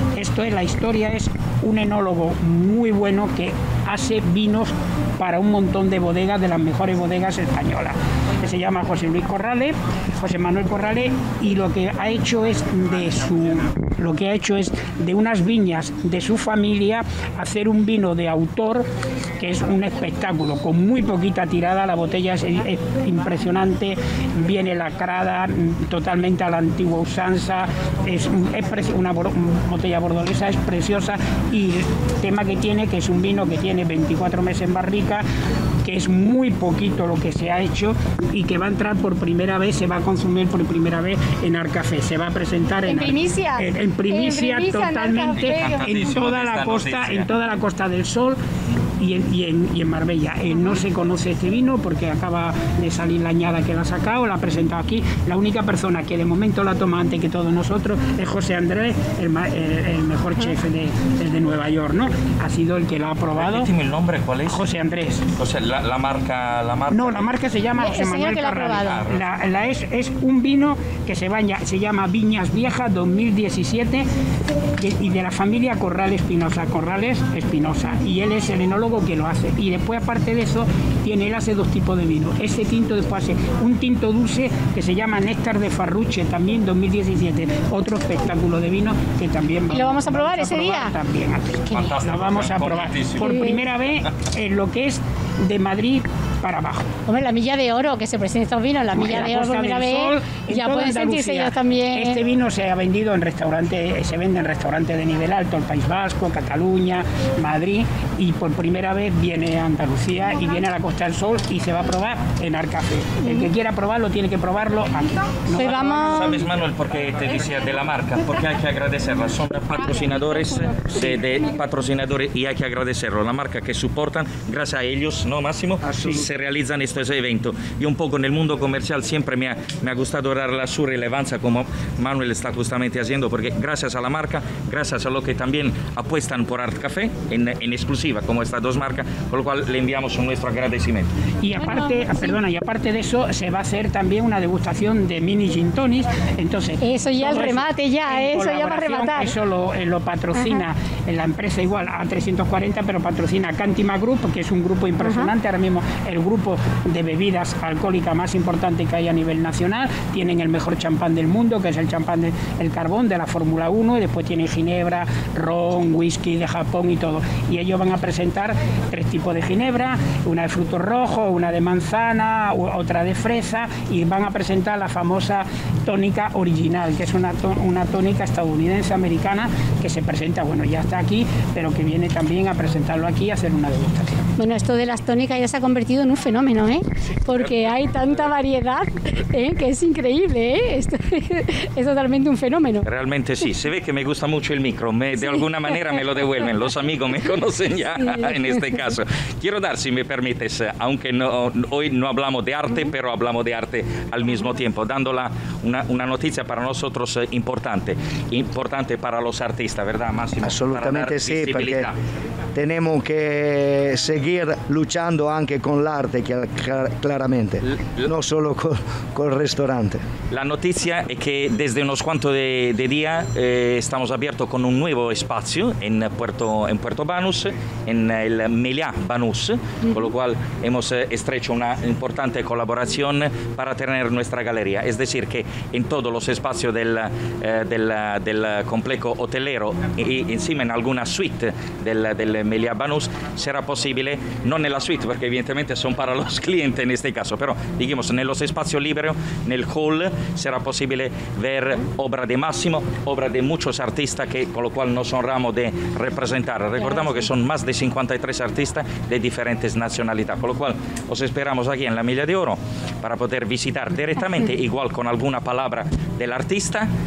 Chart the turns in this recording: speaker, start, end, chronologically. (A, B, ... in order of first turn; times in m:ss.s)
0:00.2-0:18.9 A
0:19.4-0:35.2 A
0:35.8-0:48.4 A
0:42.9-0:45.9 B
0:45.3-0:47.3 C
0:49.0-1:03.7 A
1:03.4-1:04.6 C
1:04.5-1:05.2 A
1:05.4-1:07.3 C
1:06.9-1:14.1 A
1:07.8-1:09.0 B
1:08.8-1:09.2 C
1:14.8-1:36.9 A
1:29.7-1:31.0 B
1:31.6-1:33.4 C
1:33.2-1:33.6 B
1:37.1-1:42.2 B
1:39.0-1:56.5 A
1:53.2-1:53.5 B
1:55.6-1:56.4 B
1:56.2-2:21.1 C
2:05.8-2:06.3 D
2:21.4-3:04.3 A
2:21.6-2:22.3 B
2:26.8-2:29.3 B
2:30.4-2:30.6 B
2:35.0-2:35.3 B
3:04.4-3:12.9 B
3:12.8-3:32.0 C
3:30.4-3:31.9 D
3:32.6-3:40.0 D
3:37.7-3:38.1 C
3:40.3-4:26.9 C